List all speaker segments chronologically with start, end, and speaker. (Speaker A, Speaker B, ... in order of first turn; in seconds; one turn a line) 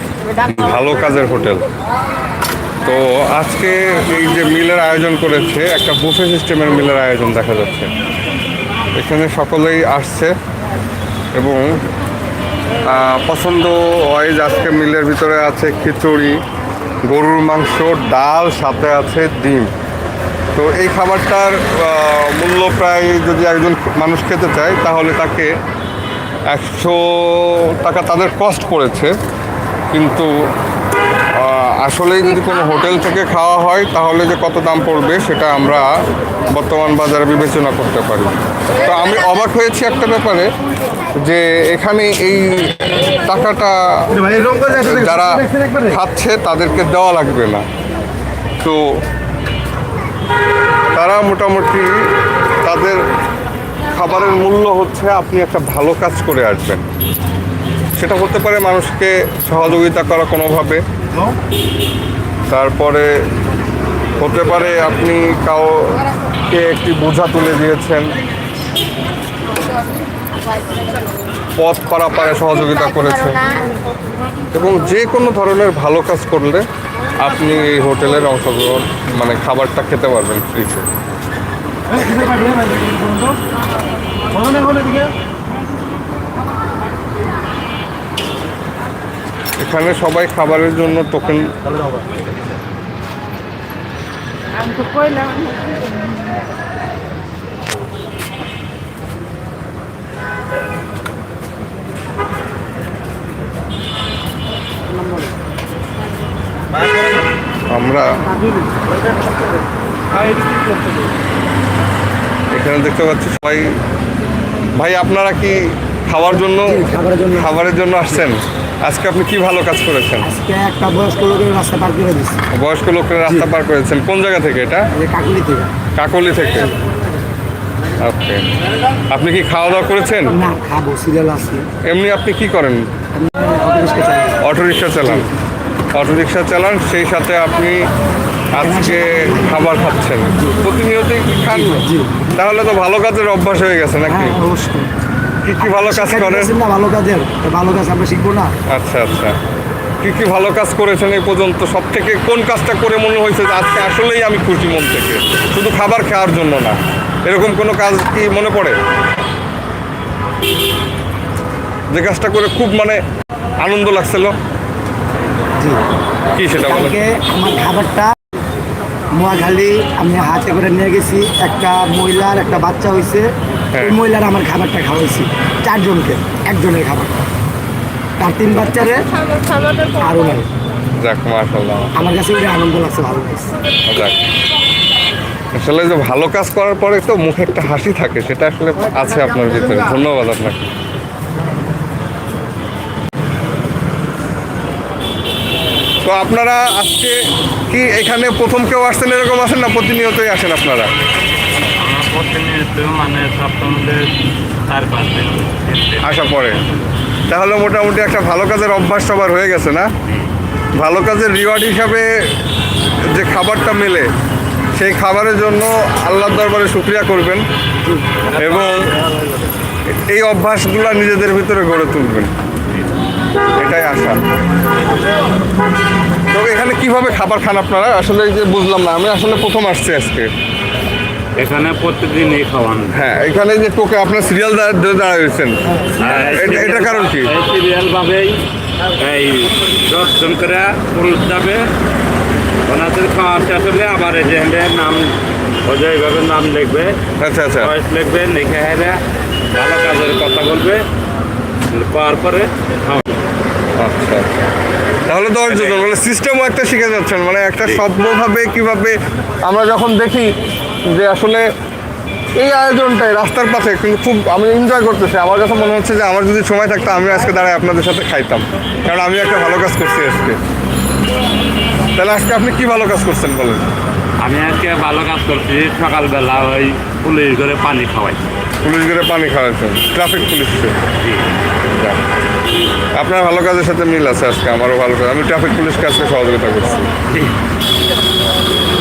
Speaker A: 0.4-1.6
Speaker A: 2.8-7.9
Speaker A: 9.0-10.3
Speaker A: 11.3-11.8
Speaker A: 12.8-16.4
Speaker A: 17.1-19.7
Speaker A: 20.5-25.5
Speaker A: 26.5-29.1
Speaker A: 29.9-30.3
Speaker A: 31.4-36.0
Speaker A: 36.5-40.5
Speaker A: 41.2-47.6
Speaker A: 48.6-48.9
Speaker A: 50.9-53.0
Speaker A: 53.9-56.9
Speaker A: 57.9-60.8
Speaker A: 62.5-63.1
Speaker A: 64.2-68.1
Speaker A: 71.6-73.5
Speaker A: 74.5-76.7
Speaker A: 77.2-80.9
Speaker A: 89.6-91.5
Speaker A: 107.7-108.1
Speaker A: 112.5-113.7
Speaker A: 114.8-120.3
Speaker B: 116.7-117.5
Speaker B: 120.2-122.4
Speaker A: 122.5-124.8
Speaker B: 124.9-125.7
Speaker A: 126.0-126.7
Speaker A: 128.0-128.4
Speaker A: 129.1-130.4
Speaker B: 130.3-131.7
Speaker A: 131.9-132.8
Speaker B: 133.2-134.4
Speaker A: 134.4-135.3
Speaker A: 135.9-137.8
Speaker A: 138.5-144.4
Speaker B: 138.6-139.7
Speaker B: 141.5-142.3
Speaker B: 144.1-144.9
Speaker B: 145.4-148.5
Speaker A: 145.6-146.5
Speaker A: 148.7-149.3
Speaker A: 150.0-158.8
Speaker A: 161.9-163.0
Speaker A: 163.6-164.4
Speaker A: 166.3-167.0
Speaker B: 166.6-168.1
Speaker B: 169.1-173.3
Speaker A: 173.7-174.0
Speaker B: 173.8-177.2
Speaker B: 178.2-179.1
Speaker B: 179.8-180.5
Speaker A: 181.0-181.9
Speaker B: 182.0-183.5
Speaker A: 183.9-184.2
Speaker A: 185.6-190.7
Speaker A: 196.0-200.9
Speaker C: 201.6-204.1
Speaker C: 204.7-206.3
Speaker A: 206.0-206.6
Speaker A: 207.3-209.9
Speaker A: 210.8-212.3
Speaker A: 213.1-214.1
Speaker A: 214.8-217.4
Speaker A: 218.3-218.9
Speaker C: 218.5-218.8
Speaker A: 219.9-222.3
Speaker A: 223.6-224.2
Speaker A: 226.3-230.3
Speaker C: 231.4-232.9
Speaker A: 232.9-237.3
Speaker C: 236.0-238.4
Speaker C: 239.0-241.7
Speaker C: 242.7-245.1
Speaker C: 245.7-247.0
Speaker A: 247.2-247.7
Speaker C: 247.6-249.0
Speaker C: 249.5-250.8
Speaker C: 251.7-253.2
Speaker A: 253.8-254.3
Speaker A: 255.1-260.3
Speaker C: 255.3-255.9
Speaker A: 260.9-261.5
Speaker A: 262.4-270.4
Speaker A: 271.9-273.6
Speaker C: 274.2-278.2
Speaker A: 278.6-280.8
Speaker C: 281.0-281.3
Speaker A: 281.7-282.0
Speaker A: 283.0-286.9